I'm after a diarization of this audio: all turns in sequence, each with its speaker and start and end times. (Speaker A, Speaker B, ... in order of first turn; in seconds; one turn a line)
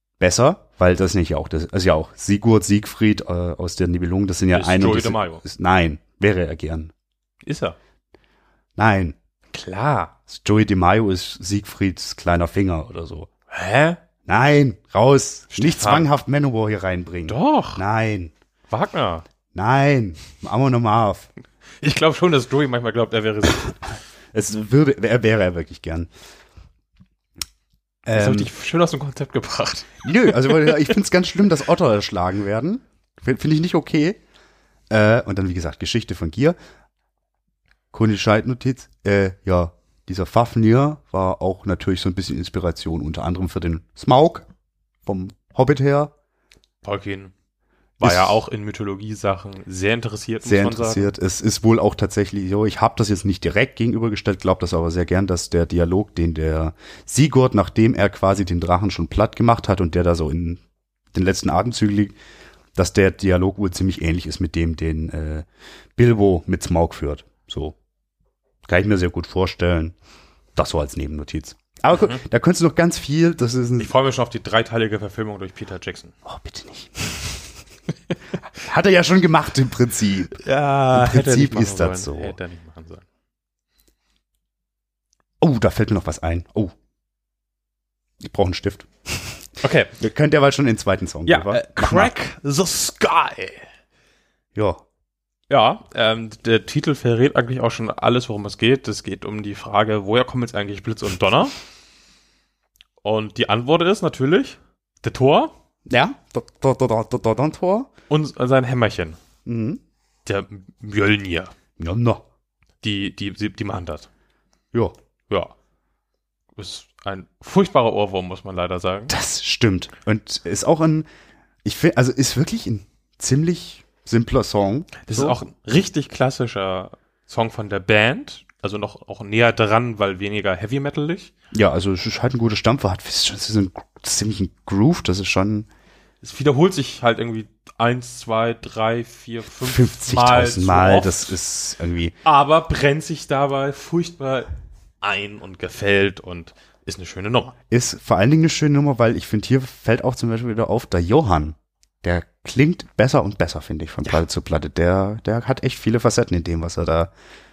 Speaker A: 0.2-6.9
Speaker B: 4.5-5.4
Speaker B: 7.5-7.8
Speaker A: 8.8-9.2
Speaker B: 9.5-10.1
Speaker A: 10.3-13.3
Speaker B: 13.5-14.0
Speaker A: 14.3-18.3
Speaker B: 15.5-16.1
Speaker B: 17.3-17.8
Speaker B: 18.7-19.2
Speaker A: 19.5-21.3
Speaker B: 21.8-23.8
Speaker A: 24.3-26.1
Speaker A: 28.1-28.5
Speaker B: 28.1-30.9
Speaker A: 30.0-34.2
Speaker A: 34.9-36.6
Speaker A: 37.9-44.5
Speaker A: 45.0-46.1
Speaker B: 46.8-47.3
Speaker B: 48.0-51.1
Speaker A: 48.0-48.4
Speaker A: 50.4-60.6
Speaker A: 61.1-62.2
Speaker A: 62.8-67.8
Speaker A: 68.7-70.0
Speaker A: 70.6-73.9
Speaker B: 71.9-72.2
Speaker B: 73.8-76.2
Speaker A: 76.2-77.4
Speaker A: 78.5-80.4
Speaker B: 80.4-83.0
Speaker A: 80.9-82.4
Speaker A: 85.4-86.7
Speaker A: 88.2-89.4
Speaker B: 89.6-89.9
Speaker A: 90.0-92.1
Speaker B: 91.3-93.7
Speaker A: 94.5-94.8
Speaker B: 95.5-101.5
Speaker B: 103.0-105.5
Speaker A: 105.9-107.9
Speaker B: 108.1-109.2
Speaker A: 109.5-109.8
Speaker B: 110.3-111.5
Speaker A: 111.8-112.2
Speaker B: 112.8-114.1
Speaker B: 116.6-119.1
Speaker A: 119.1-121.1
Speaker A: 121.6-125.4
Speaker B: 125.0-131.3
Speaker A: 131.5-135.7
Speaker B: 136.2-141.4
Speaker A: 139.6-142.2
Speaker B: 142.2-144.5
Speaker B: 145.0-147.5
Speaker A: 147.7-157.1